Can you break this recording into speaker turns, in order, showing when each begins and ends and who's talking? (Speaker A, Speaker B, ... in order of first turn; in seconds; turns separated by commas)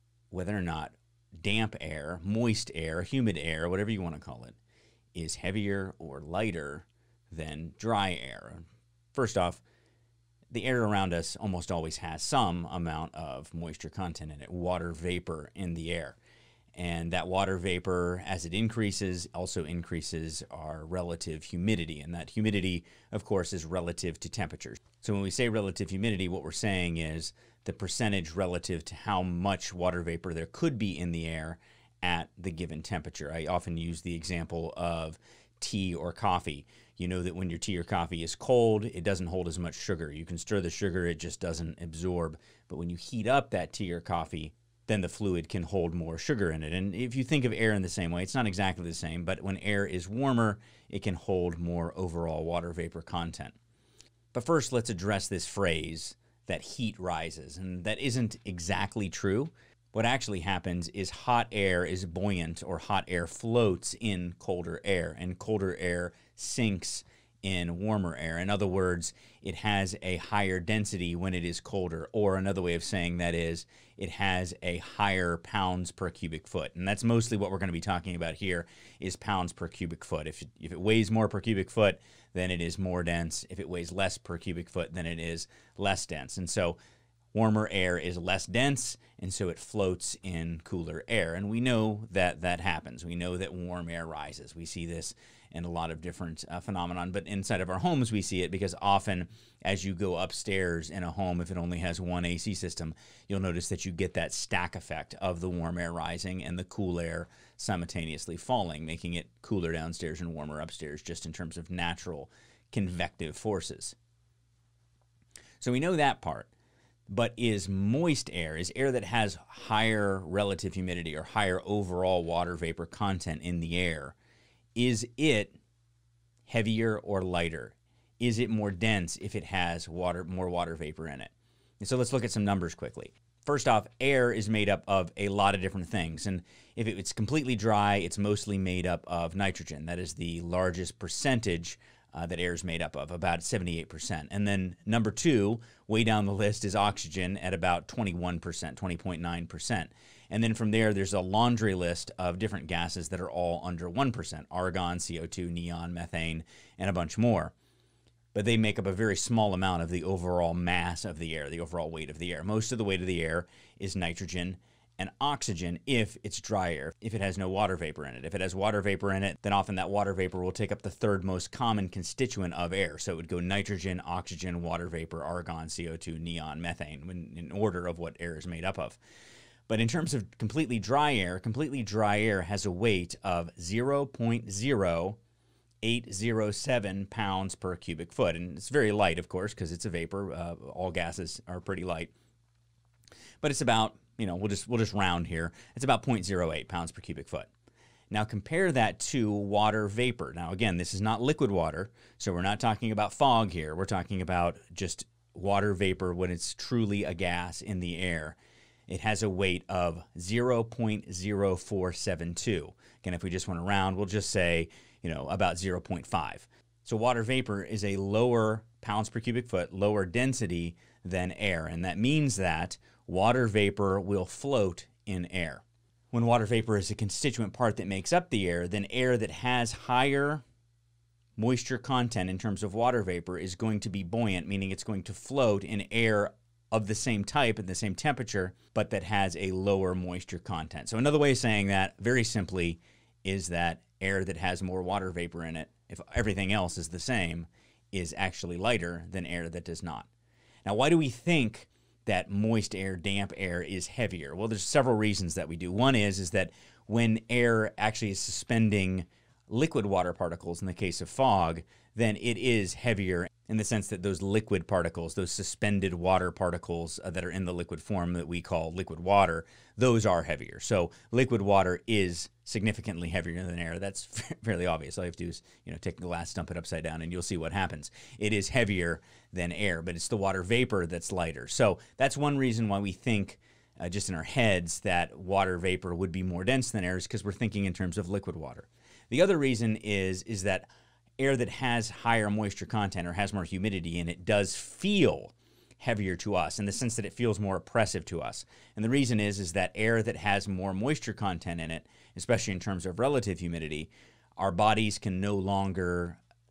Speaker A: 0.3-4.6, Speaker A: 5.1-9.6, Speaker A: 10.5-16.2, Speaker A: 16.7-53.5, Speaker A: 54.3-86.8, Speaker A: 87.3-114.0, Speaker A: 115.6-116.5, Speaker A: 117.1-124.1, Speaker A: 124.8-125.6, Speaker A: 126.5-157.5, Speaker A: 158.3-179.0, Speaker A: 179.7-185.2, Speaker A: 185.8-192.1, Speaker A: 193.4-197.5, Speaker A: 198.1-230.4, Speaker A: 231.4-250.1, Speaker A: 250.6-306.2